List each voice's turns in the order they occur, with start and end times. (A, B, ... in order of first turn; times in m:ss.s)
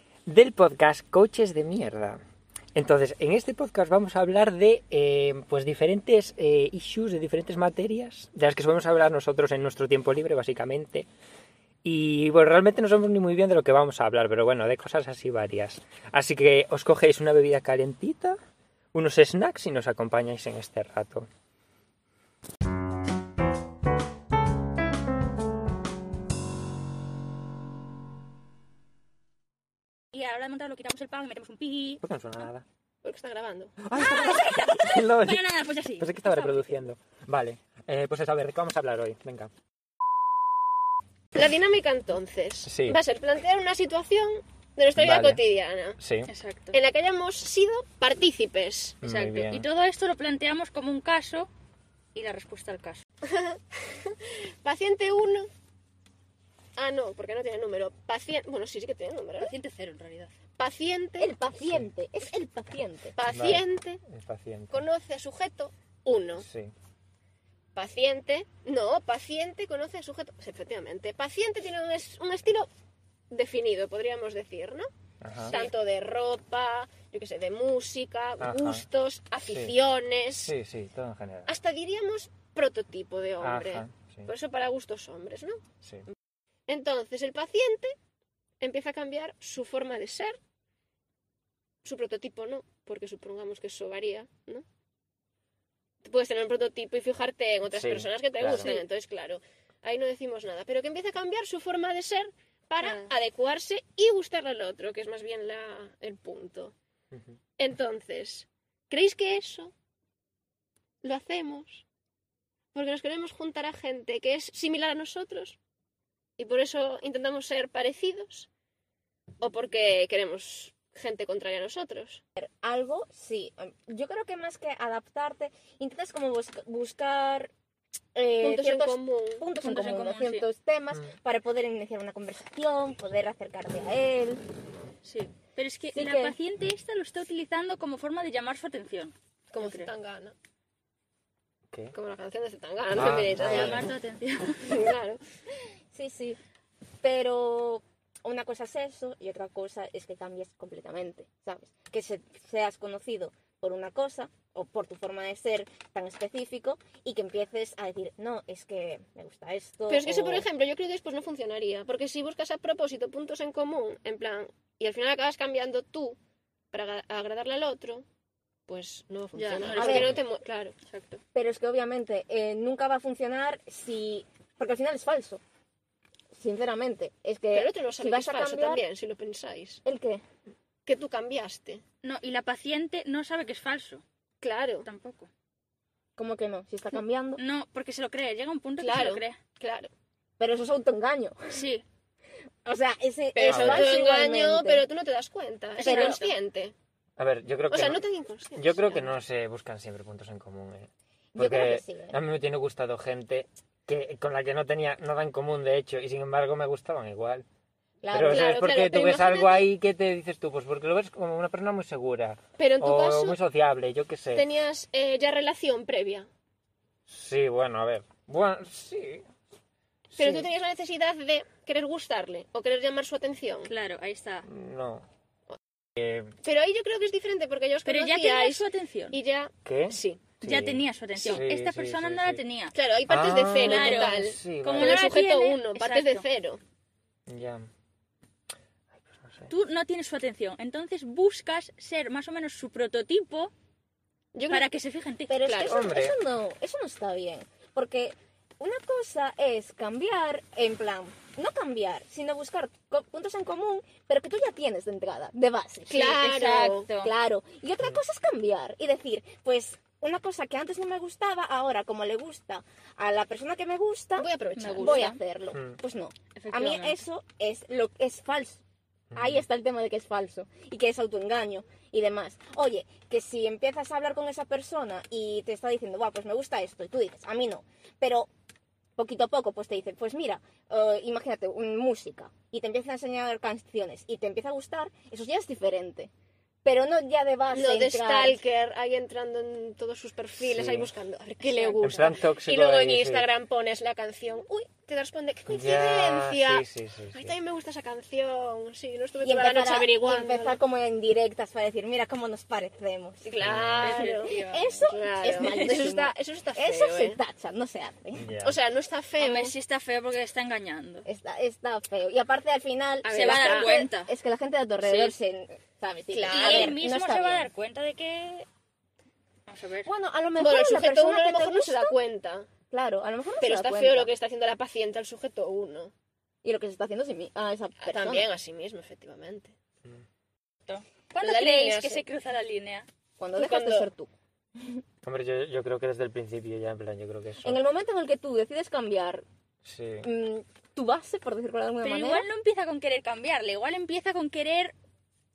0:00.3-0:02.2 A
0:02.7-0:11.1 A
0:11.8-0:18.4 A
0:18.9-0:21.3 A
0:30.1-0:32.0 B
0:32.0-0:32.6 A
0:33.0-0:33.8 C
0:33.8-0:35.4 A
0:34.0-0:36.8 B
0:36.0-0:39.5 A
0:41.3-0:46.0 C
0:42.6-0:43.0 A
0:45.0-0:45.4 A
0:46.0-0:46.3 A
0:46.3-0:46.8 B
0:46.7-0:49.0 C
0:49.0-0:49.6 A
0:49.0-0:51.5 B
0:52.1-0:53.0 B
0:53.2-0:55.5 C
0:56.8-0:59.5 C
0:59.4-1:00.3 B
1:00.6-1:01.3 C
1:01.2-1:03.1 D
1:01.6-1:01.9 A
1:03.2-1:04.0 C
1:03.2-1:04.8 A
1:04.7-1:06.4 C
1:06.4-1:06.7 A
1:07.7-1:12.7 C
1:13.3-1:14.9 C
1:15.2-1:15.6 A
1:15.4-1:20.5 C
1:18.4-1:18.8 A
1:19.4-1:19.7 A
1:20.4-1:21.5 A
1:21.5-1:25.6 C
1:23.4-1:24.3 A
1:26.7-1:27.9 C
1:28.6-1:30.4 C
1:31.8-1:34.6 C
1:36.0-1:46.7 C
1:37.7-1:38.8 A
1:42.8-1:43.1 B
1:47.6-1:49.7 C
1:51.0-1:51.8 C
1:52.7-1:55.6 C
1:56.4-1:58.5 C
1:59.4-2:02.2 C
2:02.4-2:07.5 D
2:08.1-2:14.4 D
2:08.4-2:09.4 C
2:09.6-2:10.4 B
2:15.0-2:19.9 B
2:15.9-2:16.4 D
2:19.5-2:20.3 C
2:21.9-2:23.9 C
2:22.9-2:23.9 A
2:23.2-2:24.8 B
2:24.6-2:25.2 C
2:25.9-2:26.4 D
2:27.0-2:40.4 D
2:39.9-2:46.2 C
2:46.7-2:48.0 C
2:48.7-2:50.8 C
2:49.3-2:50.2 B
2:49.6-2:50.1 D
2:49.8-2:50.2 A
2:50.8-2:51.2 B
2:51.3-2:55.4 D
2:56.3-2:58.8 D
2:57.5-2:59.8 C
2:59.8-3:00.2 D
3:00.8-3:01.8 C
3:02.0-3:04.0 B
3:04.4-3:04.9 C
3:04.8-3:05.3 B
3:06.2-3:07.4 D
3:07.4-3:09.4 B
3:08.8-3:09.9 C
3:10.4-3:11.4 D
3:11.5-3:11.8 B
3:12.6-3:14.8 D
3:13.4-3:16.7 C
3:13.4-3:13.9 A
3:15.8-3:16.3 B
3:15.8-3:16.2 D
3:17.2-3:18.0 A
3:17.7-3:19.1 C
3:18.5-3:27.4 A
3:21.3-3:22.2 D
3:28.0-3:28.5 D
3:28.1-3:34.5 A
3:28.2-3:29.7 C
3:32.6-3:33.4 C
3:34.3-3:36.3 C
3:37.1-3:39.3 A
3:40.1-3:40.5 A
3:40.2-3:43.7 C
3:43.6-3:44.4 B
3:44.4-3:45.0 A
3:46.0-3:46.3 A
3:46.4-3:50.3 C
3:47.8-3:49.2 B
3:49.6-3:52.4 A
3:50.4-3:52.8 B
3:51.2-3:51.4 C
3:52.7-3:56.6 C
3:53.1-3:55.1 A
3:53.6-3:56.3 B
3:57.3-3:57.7 A
3:58.9-3:59.5 A
3:59.5-4:03.5 B
4:04.3-4:04.7 C
4:04.5-4:05.4 B
4:05.3-4:16.3 D
4:05.4-4:05.9 C
4:05.6-4:06.2 A
4:15.9-4:16.9 C
4:16.0-4:17.1 B
4:16.9-4:28.6 D
4:24.2-4:25.1 C
4:24.6-4:25.2 B
4:25.5-4:25.8 A
4:26.4-4:27.0 B
4:29.1-4:29.4 A
4:29.1-4:38.3 D
4:39.0-4:46.1 D
4:46.6-4:48.4 D
4:47.5-5:00.6 C
4:50.4-4:50.9 A
4:51.4-4:52.2 D
4:51.8-4:53.3 A
4:55.5-4:57.4 A
4:59.2-5:03.3 D
5:03.2-5:07.2 C
5:03.4-5:04.1 A
5:03.8-5:05.8 B
5:04.3-5:08.3 D
5:08.2-5:08.6 A
5:08.4-5:09.5 C
5:09.2-5:11.0 B
5:11.0-5:17.5 D
5:13.0-5:13.9 C
5:13.0-5:14.1 B
5:14.8-5:15.1 C
5:16.1-5:16.8 C
5:16.3-5:18.4 B
5:19.5-5:19.9 B
5:19.8-5:22.0 D
5:20.4-5:22.5 C
5:22.7-5:24.1 D
5:23.4-5:25.9 C
5:26.4-5:28.3 D
5:27.8-5:29.5 C
5:30.7-5:32.9 B
5:31.2-5:32.0 C
5:33.2-5:34.8 D
5:33.3-5:33.9 C
5:35.0-5:37.6 A
5:37.4-5:39.2 D
5:39.6-5:40.1 A
5:40.0-5:42.3 D
5:41.8-5:44.7 B